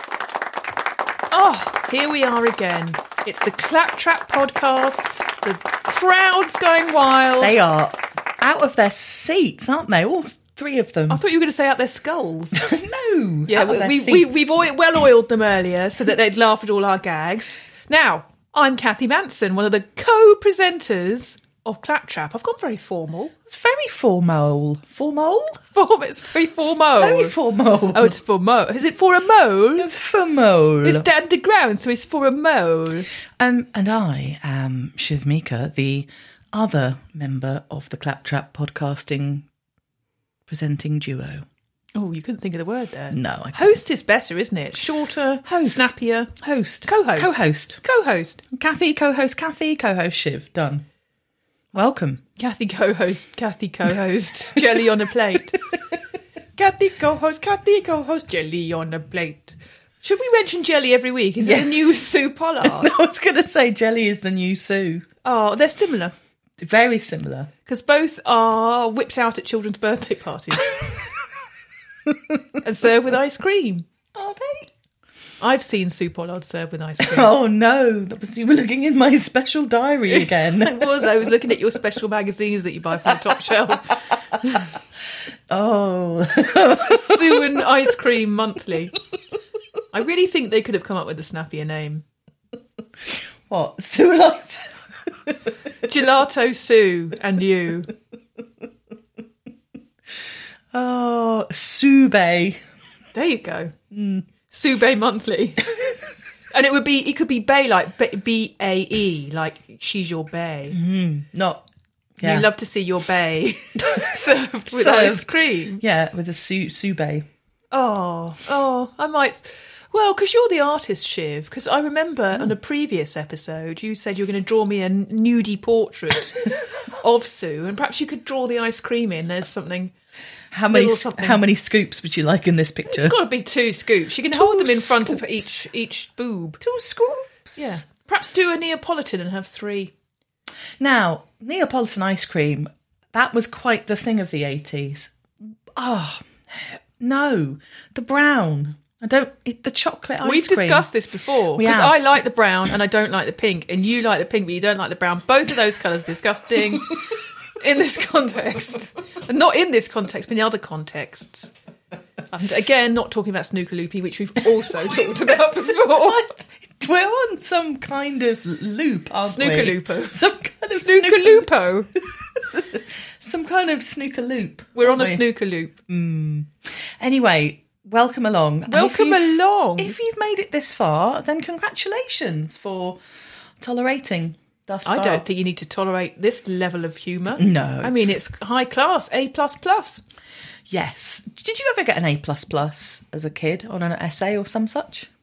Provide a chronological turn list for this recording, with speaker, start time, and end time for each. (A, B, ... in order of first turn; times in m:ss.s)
0:01.3-0:07.6 A
0:07.4-0:11.2 B
0:11.1-0:12.6 A
0:12.6-0:14.4 B
0:13.5-0:23.3 A
0:23.5-0:25.6 B
0:25.7-0:27.3 A
0:27.0-0:28.1 B
0:27.9-0:29.9 A
0:29.8-0:31.1 B
0:30.8-0:33.1 A
0:33.4-0:39.4 B
0:40.5-0:41.4 B
0:41.9-0:46.3 A
0:43.1-0:43.8 B
0:45.4-0:47.8 B
0:46.8-0:48.4 A
0:48.5-0:50.8 B
0:51.7-0:52.2 B
0:52.4-0:55.6 A
0:56.6-1:02.9 A
1:01.4-1:01.9 B
1:02.6-1:05.0 B
1:05.2-1:06.1 A
1:06.6-1:07.5 B
1:07.6-1:10.9 A
1:12.1-1:12.4 B
1:12.6-1:13.9 A
1:14.1-1:14.7 B
1:15.4-1:17.3 A
1:17.0-1:21.0 B
1:20.5-1:24.6 A
1:25.5-1:27.6 B
1:26.5-1:29.0 A
1:29.9-1:32.0 A
1:33.5-1:35.5 B
1:35.8-1:37.9 A
1:40.7-1:42.6 B
1:43.1-1:43.7 A
1:43.9-1:44.3 B
1:44.5-1:45.9 A
1:46.5-1:50.8 A
1:50.7-1:51.6 B
1:52.2-1:52.5 B
1:52.2-1:55.8 A
1:54.7-1:57.2 B
1:57.7-2:09.9 A
2:10.5-2:13.2 B
2:10.7-2:11.4 A
2:12.9-2:16.6 A
2:14.3-2:15.5 B
2:16.6-2:17.8 B
2:17.6-2:19.9 A
2:20.8-2:30.9 B
2:30.2-2:37.0 A
2:31.5-2:32.0 B
2:37.6-2:41.5 A
2:42.3-2:46.3 A
2:45.9-2:51.5 B
2:49.3-2:51.9 A
2:52.4-2:55.2 B
2:54.7-2:55.8 A
2:55.9-3:03.0 B
2:58.7-3:00.0 A
3:03.6-3:05.2 B
3:04.8-3:10.0 A
3:07.4-3:08.1 B
3:10.7-3:15.1 B